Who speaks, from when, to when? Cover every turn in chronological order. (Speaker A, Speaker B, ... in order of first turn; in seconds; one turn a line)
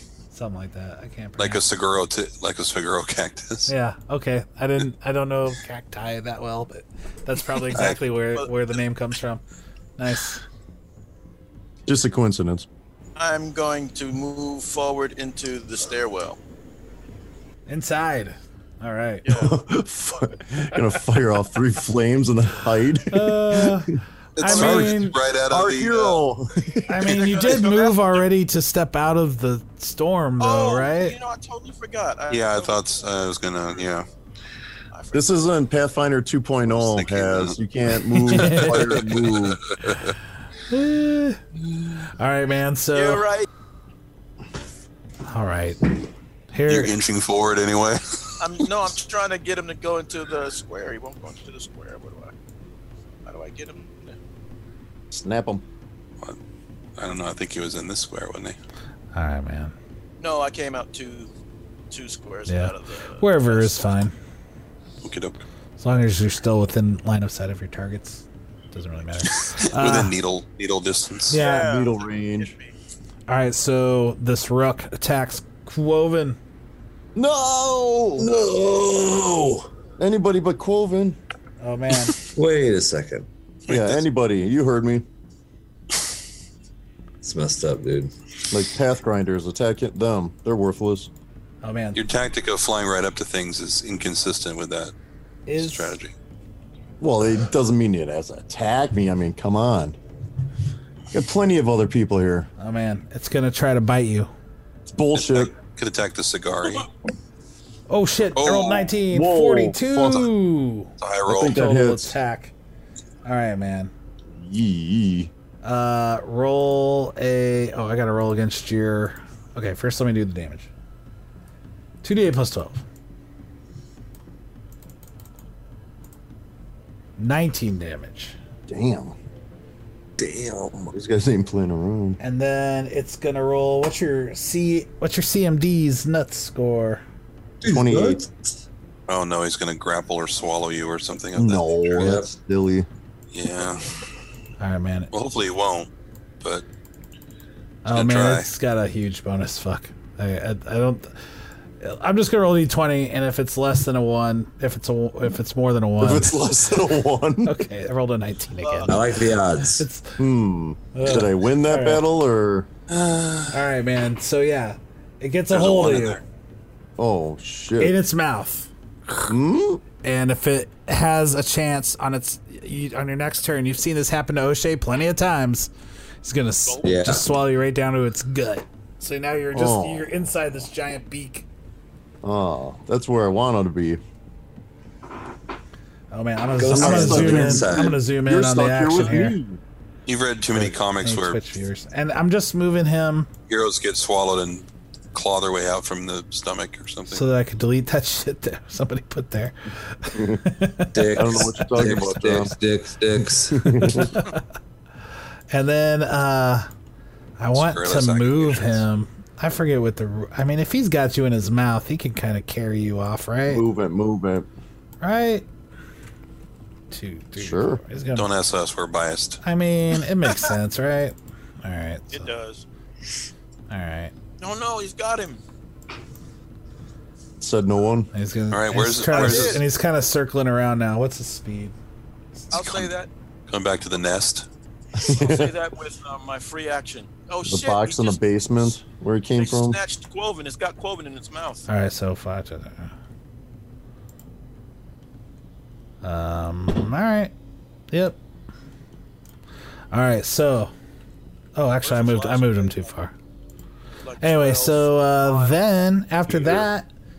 Speaker A: 0.3-1.6
Speaker B: 1.4-3.7
Speaker A: 3.7-9.4
Speaker C: 7.8-8.5
Speaker A: 10.0-10.4
Speaker D: 11.9-12.7
Speaker C: 13.2-16.4
Speaker A: 17.7-19.4
Speaker C: 19.2-19.6
Speaker D: 19.3-27.5
Speaker A: 23.1-25.1
Speaker B: 24.4-26.2
Speaker A: 26.9-31.2
Speaker C: 27.1-28.2
Speaker C: 30.4-32.9
Speaker B: 32.3-34.1
Speaker C: 34.9-35.5
Speaker D: 35.1-39.7
Speaker B: 36.7-37.5
Speaker A: 38.1-38.8
Speaker B: 38.5-39.4
Speaker A: 40.7-41.4
Speaker A: 42.0-43.2
Speaker C: 42.9-43.5
Speaker A: 45.2-46.0
Speaker A: 46.5-46.9
Speaker B: 46.7-48.0
Speaker C: 48.4-52.3
Speaker C: 53.2-54.2
Speaker D: 55.1-55.6
Speaker B: 57.0-58.6
Speaker A: 59.1-59.7
Speaker C: 60.2-61.3
Speaker C: 61.9-64.0
Speaker A: 62.5-64.1
Speaker B: 65.0-65.4
Speaker A: 65.8-70.1
Speaker B: 69.7-71.4
Speaker A: 71.3-71.7
Speaker C: 71.3-72.7
Speaker D: 71.5-72.5
Speaker A: 73.3-76.4
Speaker D: 77.1-78.3
Speaker E: 78.2-79.7
Speaker D: 80.0-81.2
Speaker A: 81.6-82.2
Speaker E: 82.1-83.3
Speaker B: 83.7-84.0
Speaker D: 83.7-85.1
Speaker E: 87.2-88.1
Speaker D: 88.5-91.1
Speaker A: 91.6-92.0
Speaker B: 91.9-94.9
Speaker A: 95.5-96.0
Speaker B: 95.6-96.1
Speaker D: 97.0-100.0
Speaker D: 101.1-102.5
Speaker A: 102.6-104.3
Speaker D: 104.9-105.5
Speaker B: 105.1-106.9
Speaker A: 107.9-110.9
Speaker B: 108.3-108.9
Speaker D: 109.1-110.2
Speaker B: 111.0-111.6
Speaker D: 111.3-112.2
Speaker A: 111.5-112.5
Speaker A: 113.2-113.9
Speaker D: 114.3-115.3
Speaker A: 115.6-120.7
Speaker A: 122.0-122.8
Speaker A: 127.2-128.3
Speaker D: 128.7-129.1
Speaker E: 130.2-130.9
Speaker D: 130.9-132.2
Speaker A: 132.2-137.0
Speaker E: 137.6-138.6
Speaker D: 137.6-138.2
Speaker B: 139.1-142.2
Speaker D: 141.3-142.9
Speaker E: 141.9-142.3
Speaker B: 143.3-143.9
Speaker A: 144.6-145.1
Speaker B: 145.1-145.9
Speaker A: 147.8-151.1
Speaker B: 147.9-148.5
Speaker A: 151.8-156.4
Speaker D: 156.0-157.6
Speaker A: 157.4-160.2
Speaker C: 158.6-159.1
Speaker E: 158.9-159.8
Speaker D: 160.2-162.7
Speaker A: 160.9-162.0
Speaker B: 162.9-163.5
Speaker A: 163.5-166.2
Speaker B: 165.5-166.2
Speaker D: 167.0-167.9
Speaker A: 167.8-168.7
Speaker D: 169.2-169.8
Speaker A: 170.0-175.7
Speaker A: 176.2-181.5
Speaker C: 176.7-177.1
Speaker E: 176.8-177.2
Speaker D: 179.5-180.1
Speaker D: 182.2-184.0
Speaker A: 186.1-189.4
Speaker E: 186.6-188.0
Speaker D: 186.7-189.6
Speaker B: 190.1-191.4
Speaker A: 190.6-193.3
Speaker B: 193.5-197.2
Speaker A: 197.1-201.2
Speaker D: 200.1-200.4
Speaker E: 200.9-204.1
Speaker D: 201.1-202.5
Speaker D: 203.2-204.2
Speaker A: 203.9-204.4
Speaker A: 205.5-206.7
Speaker A: 207.4-213.6
Speaker B: 207.5-208.8
Speaker D: 213.5-214.5
Speaker A: 215.0-215.5
Speaker A: 216.9-218.3
Speaker D: 217.4-217.8
Speaker B: 218.1-219.4
Speaker A: 219.4-222.3
Speaker C: 222.1-222.6
Speaker A: 223.7-224.1
Speaker C: 224.4-225.4
Speaker D: 227.4-228.1
Speaker A: 228.1-231.7
Speaker B: 228.5-229.6
Speaker C: 229.1-229.6
Speaker C: 232.5-233.1
Speaker B: 232.5-232.9
Speaker B: 233.5-234.5
Speaker D: 234.9-235.5
Speaker C: 235.0-238.7
Speaker D: 237.5-239.8
Speaker C: 239.4-241.7
Speaker A: 241.7-242.9
Speaker A: 246.0-247.3
Speaker A: 247.9-248.2
Speaker A: 249.9-250.7
Speaker A: 251.5-253.1
Speaker C: 251.8-252.9
Speaker C: 254.0-255.6
Speaker A: 254.2-256.9